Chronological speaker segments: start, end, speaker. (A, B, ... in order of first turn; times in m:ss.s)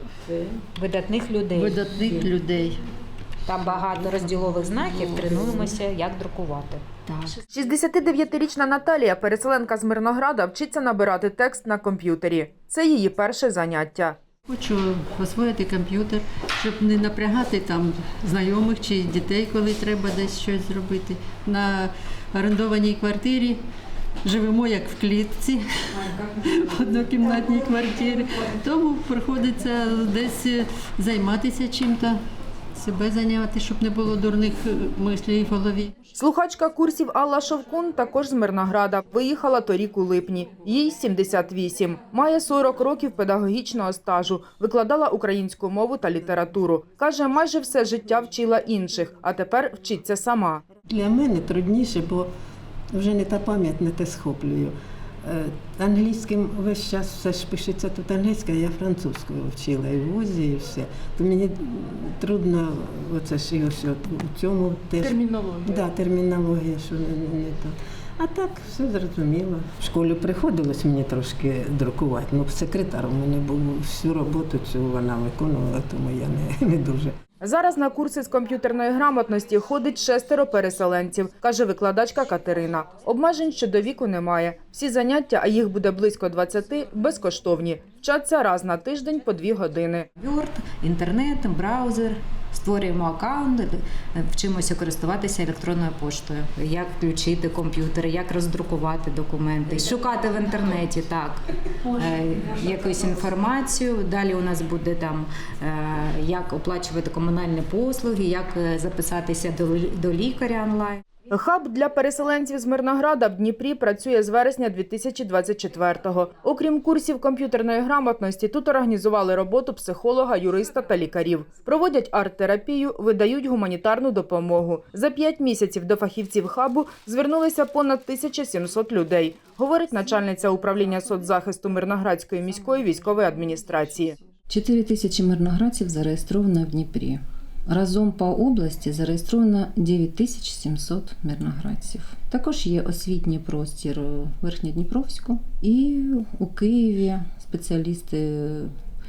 0:00.7-0:02.3 A
0:01.6-0:02.8 B
0:03.4-0:06.8 A
0:07.5-0:14.2 C
0:14.5-0:23.6 B
0:24.2-0:32.2 B
0:32.7-0:35.9 B
0:36.2-0:50.7 C
0:50.9-0:52.3 D
0:52.9-1:17.1 D
1:17.4-1:30.1 C
1:30.2-1:51.0 A
1:51.3-2:14.2 C
2:14.5-2:28.7 E